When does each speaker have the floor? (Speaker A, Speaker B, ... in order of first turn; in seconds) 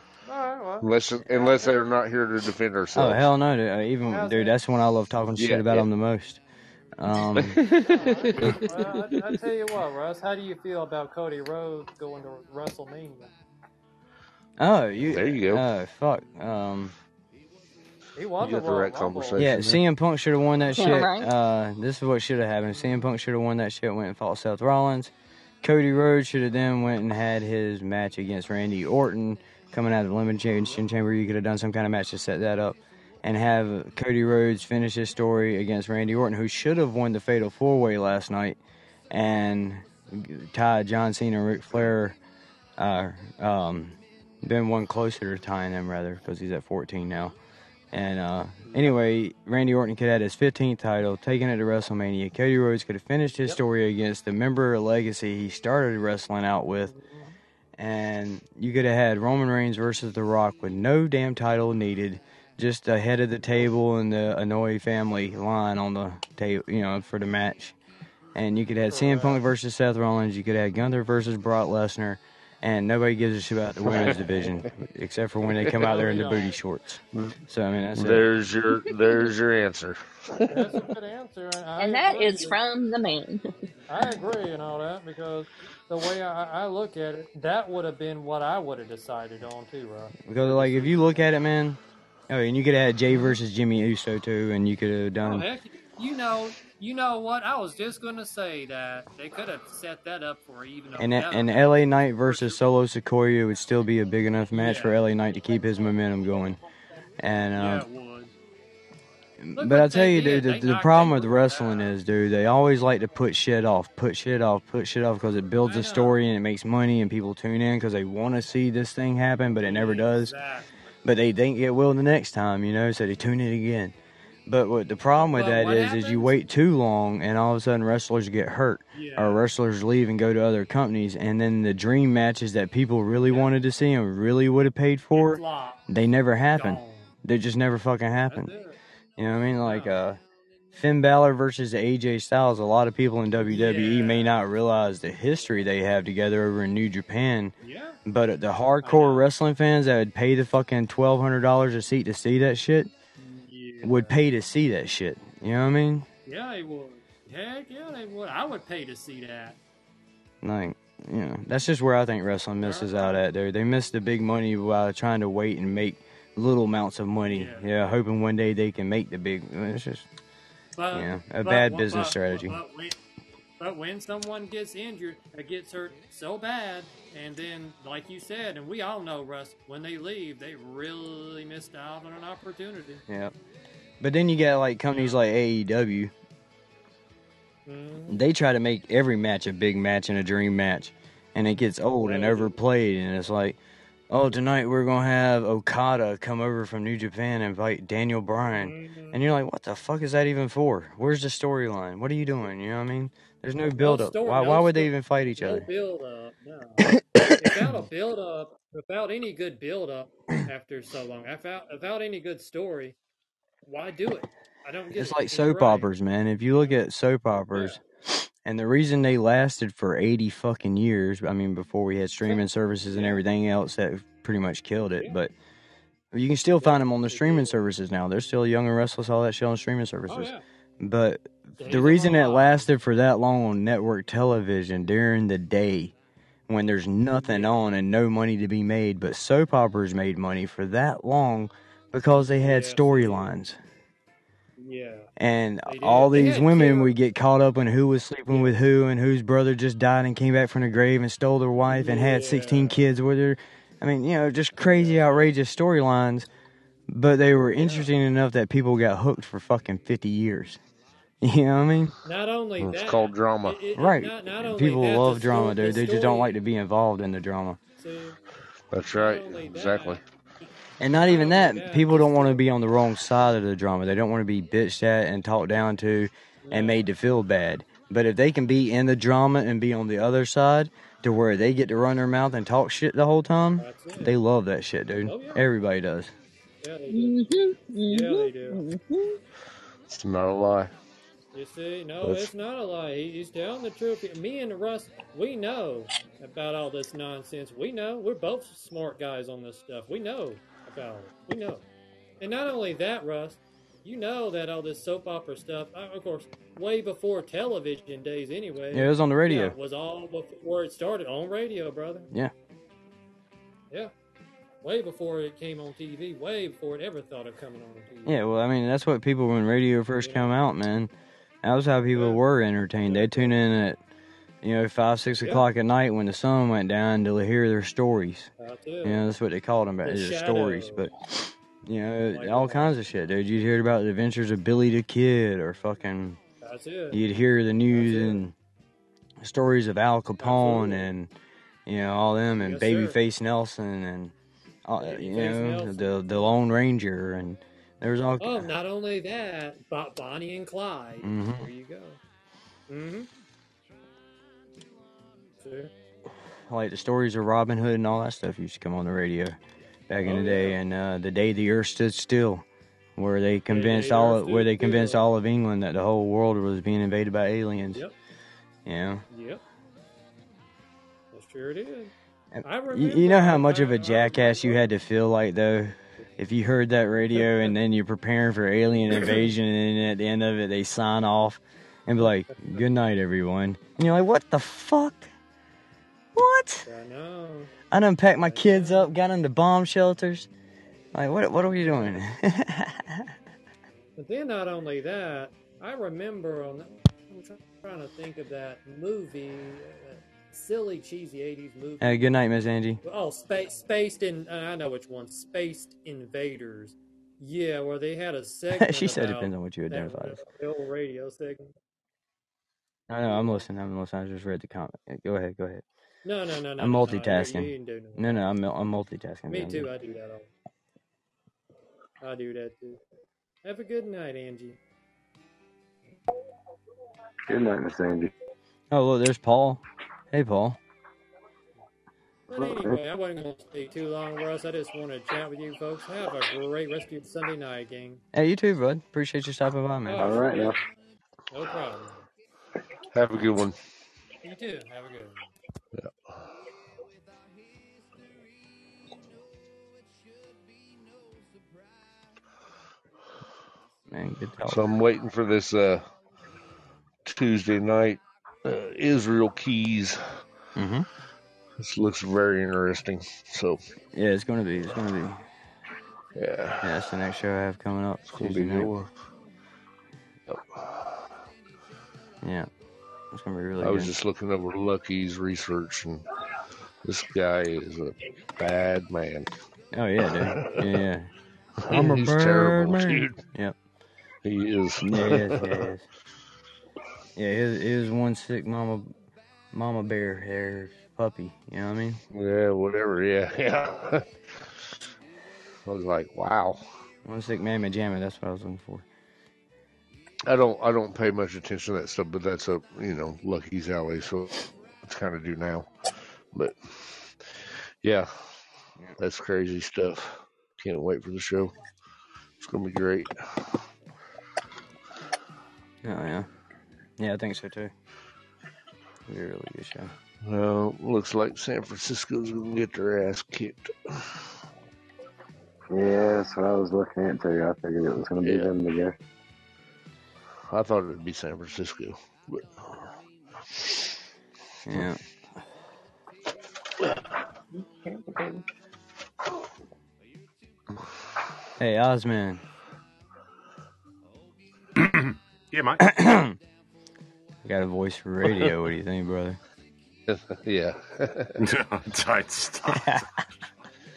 Speaker A: 0.2-2.0, 4.1-4.6, 7.8-13.3, 18.2-19.5, 48.7-49.0, 56.9-57.4, 68.9-69.5, 75.7-76.5, 80.5-82.6, 83.9-91.3, 95.2-102.6, 104.5-106.6, 107.5-108.3, 109.6-112.0, 115.6-116.2, 119.5-120.7, 125.1-126.4, 128.9-129.4, 135.1-135.9, 136.6-137.1, 138.3-138.8, 139.6-140.0, 143.4-144.4, 147.6-148.0, 148.8-149.3, 153.2-154.2, 156.3-159.6, 162.6-163.2, 167.3-167.7, 170.8-173.0, 173.6-183.0, 184.9-185.2, 187.7-188.2, 192.0-192.6, 198.5-199.2, 203.8-213.0, 213.7-215.9, 217.5-217.8, 222.2-223.2, 226.6-227.7, 230.1-230.4, 231.6-232.7, 237.1-237.5, 242.2-243.3, 244.6-245.1, 245.7-246.9, 248.3-248.6, 251.7-252.9, 254.6-255.3, 257.4-257.9, 262.1-266.4, 267.8-268.2, 268.8-270.0, 270.9-272.4, 276.4-276.9, 283.6-284.2, 285.1-285.4, 286.6-287.2, 287.9-288.6, 291.3-301.6, 302.2-312.1, 314.6-318.2, 320.0-320.3, 321.9-322.2, 322.8-323.4, 328.4-329.1, 329.8-330.9, 332.1-332.7, 336.4-337.0, 337.7-338.2, 340.2-340.9, 342.4-343.0, 344.8-346.3, 348.2-352.0, 352.7-353.1, 355.4-355.7, 360.0-360.6, 363.5-365.0, 369.1-369.4, 371.1-371.9, 372.4-374.7, 377.1-377.6, 378.9-379.3, 382.0-382.6, 386.7-387.5, 388.2-388.9, 391.5-392.0, 394.0-402.0, 402.8-411.5, 413.0-413.4, 416.1-418.3, 419.3-420.3, 422.0-422.8, 423.4-424.6, 432.3-438.0, 439.9-440.6, 441.3-442.0, 444.2-445.2
Speaker B: 0.8-3.3, 5.4-5.9, 7.4-9.3, 15.0-15.7, 18.4-19.8, 73.8-74.7, 78.0-80.9, 262.6-263.6, 268.7-270.0, 289.9-290.7, 292.0-292.3, 442.9-443.6, 445.8-446.1, 454.4-455.9, 457.1-460.2, 461.6-463.6, 466.2-466.7, 468.1-468.9, 470.3-471.1, 473.6-476.1, 476.8-479.3, 480.1-480.8, 481.6-483.2, 484.2-485.7, 492.1-494.5, 495.7-496.6, 500.3-505.7, 506.3-508.1, 509.0-511.5, 512.4-513.6, 520.2-524.2, 528.2-528.5, 530.5-532.9, 550.1-551.4
Speaker C: 2.9-6.4, 7.0-7.6, 14.6-16.9, 19.4-38.6, 39.1-42.2, 42.8-47.4, 47.9-56.9, 57.8-67.8, 68.3-78.3, 90.2-95.5, 101.0-106.6, 107.2-107.9, 109.4-120.3, 121.0-123.9, 124.5-138.5, 139.2-140.2, 140.7-147.5, 148.1-152.9, 153.8-156.1, 160.4-170.1, 170.9-172.6, 183.1-183.3, 184.0-186.1, 188.1-193.6, 194.1-205.7, 214.9-225.3, 226.1-235.9, 236.5-243.6, 245.2-256.3, 256.9-260.6, 261.2-261.9, 263.8-267.6, 270.8-286.1, 308.7-309.6, 318.1-320.9, 321.4-323.8, 324.4-328.3, 328.8-336.2, 336.9-338.3, 339.2-341.1, 341.7-344.1, 344.6-348.5, 351.0-351.5, 356.5-359.4, 359.9-362.4, 363.0-367.8, 368.7-369.0, 372.3-385.1, 386.1-386.7, 387.7-390.3, 390.9-393.1, 401.8-402.8, 408.5-410.2, 412.9-415.6, 416.6-419.7, 428.7-430.6, 438.1-440.2, 453.9-454.6, 460.6-460.9, 463.9-465.2, 466.6-468.7, 472.2-472.5, 473.1-473.9, 479.7-481.1, 481.7-483.6, 484.8-485.9, 487.2-488.9, 489.5-492.0, 497.1-498.9, 515.8-516.3, 517.0-517.7, 519.1-519.9, 534.7-535.0, 541.6-542.4, 545.8-546.4, 547.4-549.4, 552.7-553.2
Speaker D: 20.8-21.3, 81.8-83.5, 286.9-289.2
Speaker E: 427.3-428.1, 432.3-432.8, 440.0-440.6, 525.7-529.0
Speaker F: 544.8-545.9, 551.4-553.0